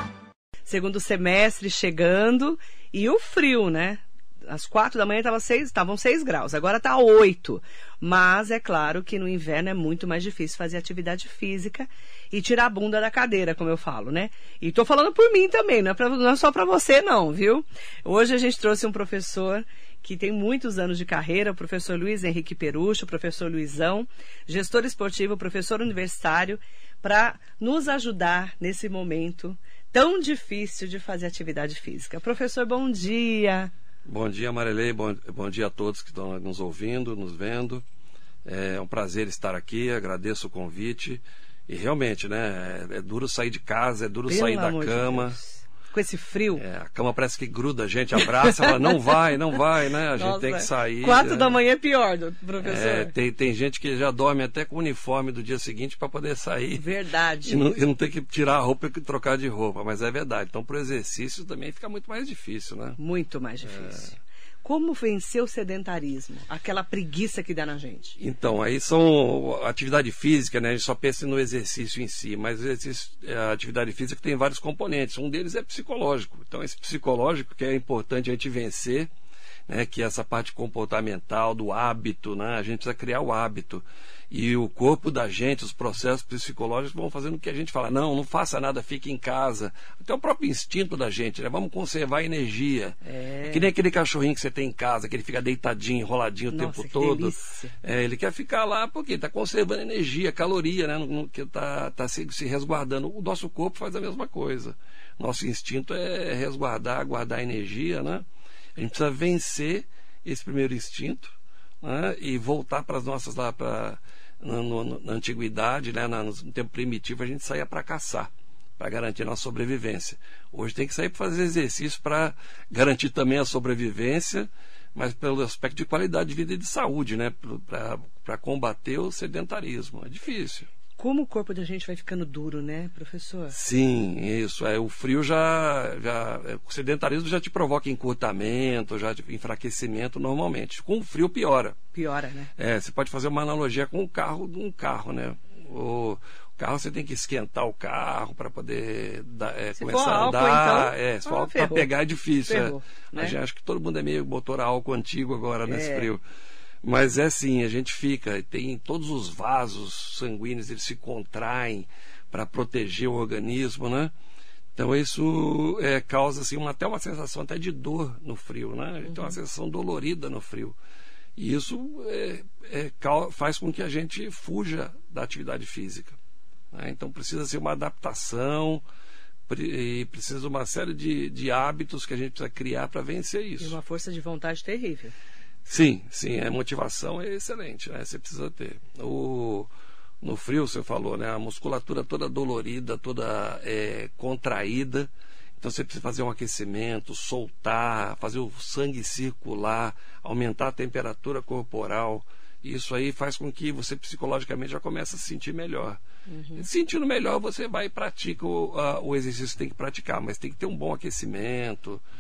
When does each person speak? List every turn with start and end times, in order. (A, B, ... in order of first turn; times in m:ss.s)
0:00.7-0:33.7 A
0:34.1-0:37.8 B
0:38.4-0:45.4 B
0:44.3-0:46.6 A
0:46.6-0:51.6 B
0:48.2-0:48.9 A
0:50.2-0:53.1 A
0:52.6-0:56.9 B
0:56.8-0:57.7 A
0:57.5-1:03.0 B
1:03.0-1:08.2 A
1:03.7-1:04.0 B
1:08.2-1:19.1 B
1:19.7-2:10.7 B
1:33.0-1:33.7 A
1:36.5-1:37.7 A
2:11.0-2:13.6 A
2:13.5-2:21.8 B
2:21.9-2:22.5 A
2:22.6-2:36.2 B
2:29.8-2:31.9 A
2:32.5-2:33.4 A
2:35.7-2:36.1 A
2:36.8-2:44.1 B
2:44.8-2:50.8 B
2:49.0-2:49.4 A
2:51.4-2:56.2 B
2:56.7-2:58.8 B
2:59.5-3:03.8 B
3:03.6-3:05.2 A
3:05.6-3:09.7 B
3:10.2-3:26.0 B
3:26.3-3:26.6 A
3:26.6-3:32.0 B